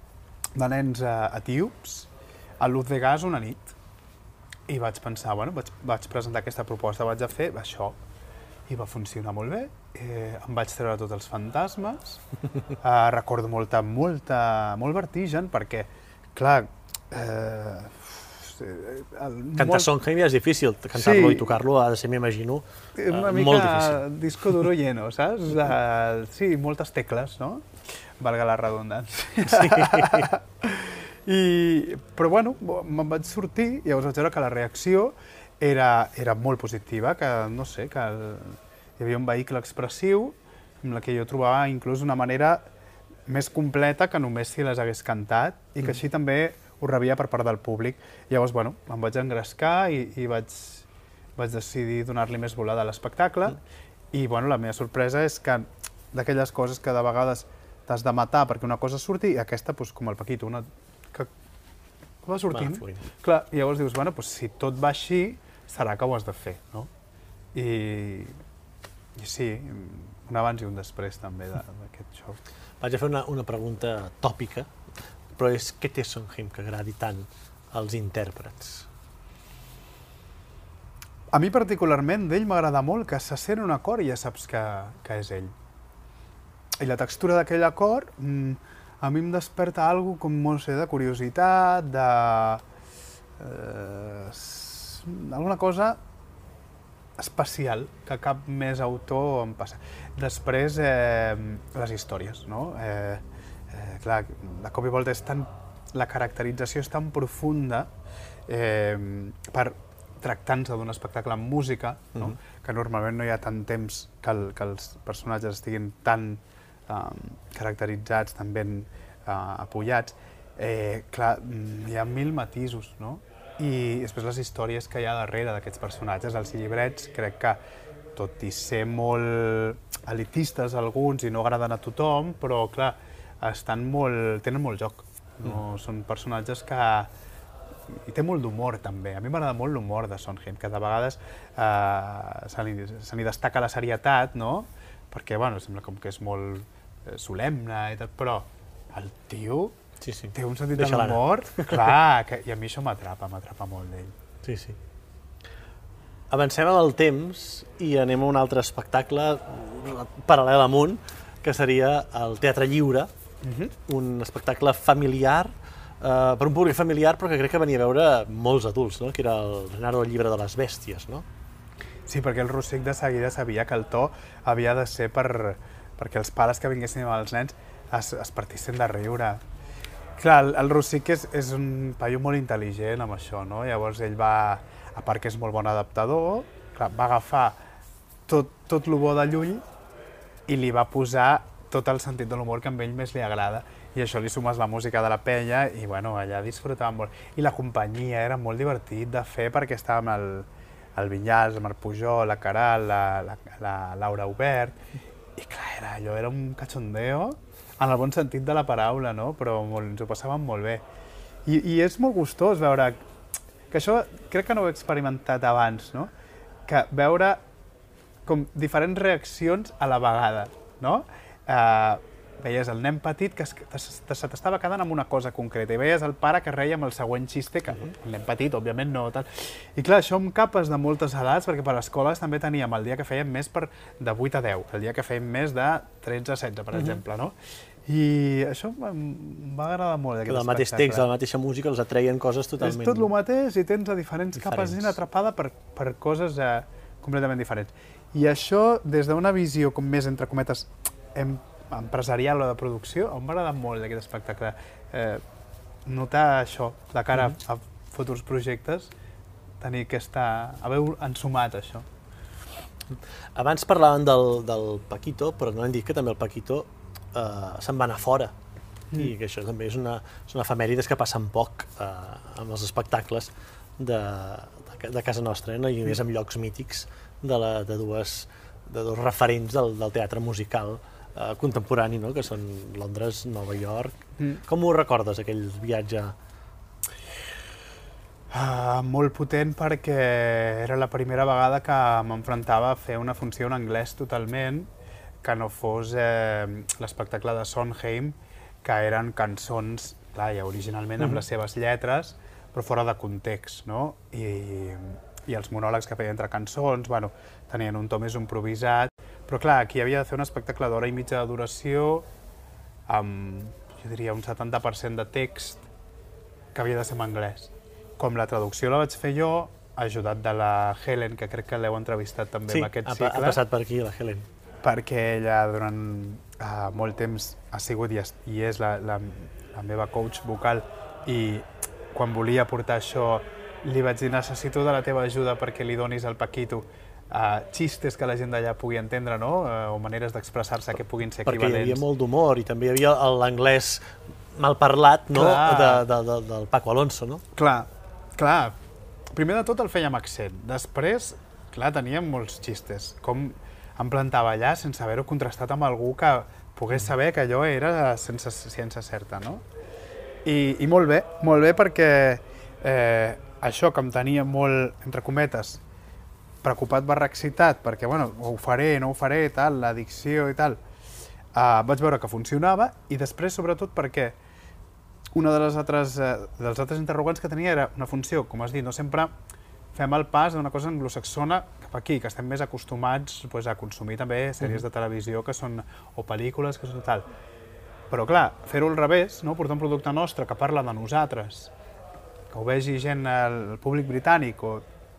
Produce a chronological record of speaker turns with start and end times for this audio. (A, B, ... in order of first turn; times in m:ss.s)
0:00.5-0:03.8 A
0:04.7-0:08.0 A
0:08.7-0:12.2 A
0:12.8-0:19.9 A
0:19.6-0:24.0 B
0:21.0-0:21.6 A
0:23.0-0:42.6 A
0:29.4-0:30.3 B
0:43.3-0:53.6 A
0:54.1-1:01.3 A
1:02.2-1:06.9 A
1:02.5-1:03.0 B
1:07.5-1:08.4 A
1:09.1-1:12.4 A
1:12.8-1:14.7 B
1:15.4-1:18.9 B
1:21.3-1:25.5 A
1:26.8-1:32.6 A
1:33.4-1:36.0 A
1:37.2-1:47.9 A
1:48.5-2:07.6 A
2:08.1-2:17.1 A
2:17.9-2:29.8 A
2:30.0-2:31.9 B
2:30.3-2:34.2 A
2:34.4-2:34.8 B
2:36.3-2:43.1 B
2:43.4-2:43.7 A
2:43.8-2:51.2 B
2:52.0-2:59.4 A
3:00.2-3:07.6 A
3:08.3-3:09.6 A
3:10.5-3:24.8 A
3:25.3-3:30.8 A
3:31.4-3:33.0 A
3:33.7-3:36.1 A
3:36.6-3:37.4 A
3:38.2-4:01.1 A
3:56.7-3:57.0 B
4:00.3-4:03.1 B
4:02.6-4:15.2 A
4:04.4-4:04.9 B
4:15.8-4:18.9 A
4:19.6-4:21.9 A
4:23.3-4:28.3 B
4:29.0-4:46.1 B
4:48.3-4:54.7 A
4:55.2-5:12.1 A
5:12.9-5:15.6 A
5:16.5-5:23.4 A
5:22.5-5:24.3 B
5:24.6-5:41.8 A
5:41.2-5:47.2 B
5:45.1-5:45.8 A
5:47.3-5:48.6 A
5:49.1-5:59.4 A
6:00.2-6:05.6 A
6:06.4-6:10.6 A
6:11.3-6:14.2 A
6:15.1-6:19.1 A
6:19.7-6:27.0 A
6:27.9-6:31.5 A
6:32.3-6:34.7 A